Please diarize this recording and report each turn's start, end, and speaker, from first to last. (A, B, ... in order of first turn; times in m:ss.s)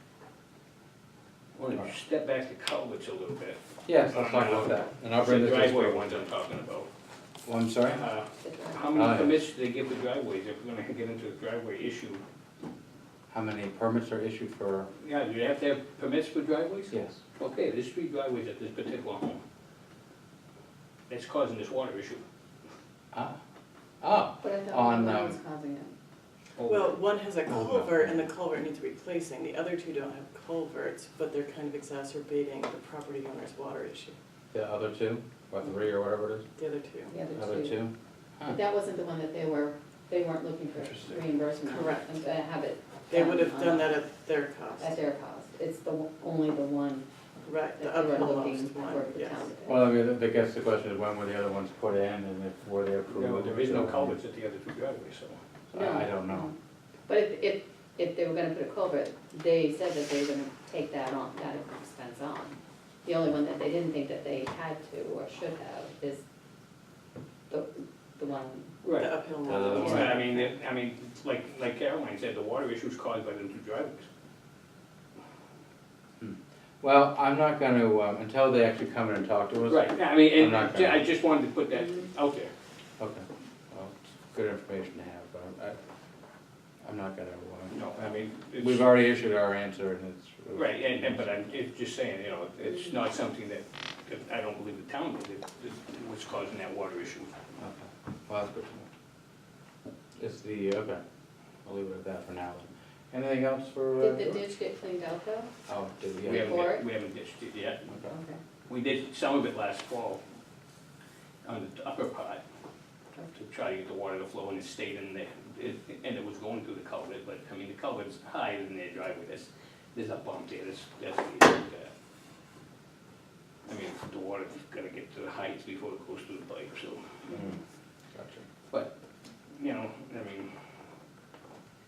0:01.6-0:06.9 A
0:03.9-0:06.3 B
0:07.4-0:08.1 B
0:07.9-0:12.2 A
0:08.4-0:09.0 C
0:08.9-0:09.5 B
0:13.3-0:14.9 B
0:15.0-0:19.4 A
0:16.9-0:17.2 B
0:21.1-0:22.2 A
0:23.1-0:23.4 B
0:24.0-0:25.4 B
0:24.4-0:25.9 C
0:26.6-0:27.0 A
0:26.7-0:34.2 D
0:27.5-0:28.2 B
0:34.5-0:36.5 B
0:36.6-0:37.2 D
0:37.1-0:37.8 C
0:37.4-0:38.6 B
0:38.5-0:44.0 C
0:40.8-0:41.2 B
0:41.7-0:42.1 D
0:43.1-0:45.0 D
0:44.8-0:47.1 C
0:47.4-0:49.5 D
0:47.7-0:49.8 C
0:49.7-0:54.2 B
0:53.1-0:55.4 A
0:55.7-0:56.5 B
0:55.7-0:56.5 C
0:57.1-1:06.2 C
1:07.5-1:08.7 C
1:08.8-1:09.1 A
1:08.9-1:10.5 D
1:09.5-1:10.2 B
1:09.8-1:14.1 A
1:09.8-1:10.3 C
1:16.2-1:21.0 B
1:19.7-1:22.5 A
1:23.0-1:25.8 B
1:26.8-1:27.9 B
1:27.7-1:28.9 A
1:28.6-1:31.5 B
1:30.5-1:37.3 A
1:37.6-1:38.9 B
1:40.2-1:41.0 B
1:41.6-1:44.4 B
1:44.0-1:45.5 C
1:45.7-1:46.7 B
1:46.2-1:47.8 A
1:46.3-1:46.8 C
1:47.9-1:48.1 B
1:48.0-1:48.4 C
1:48.7-1:50.2 A
1:51.4-1:52.4 A
1:53.3-2:01.9 A
2:03.7-2:07.0 A
2:08.1-2:08.4 B
2:09.6-2:10.5 A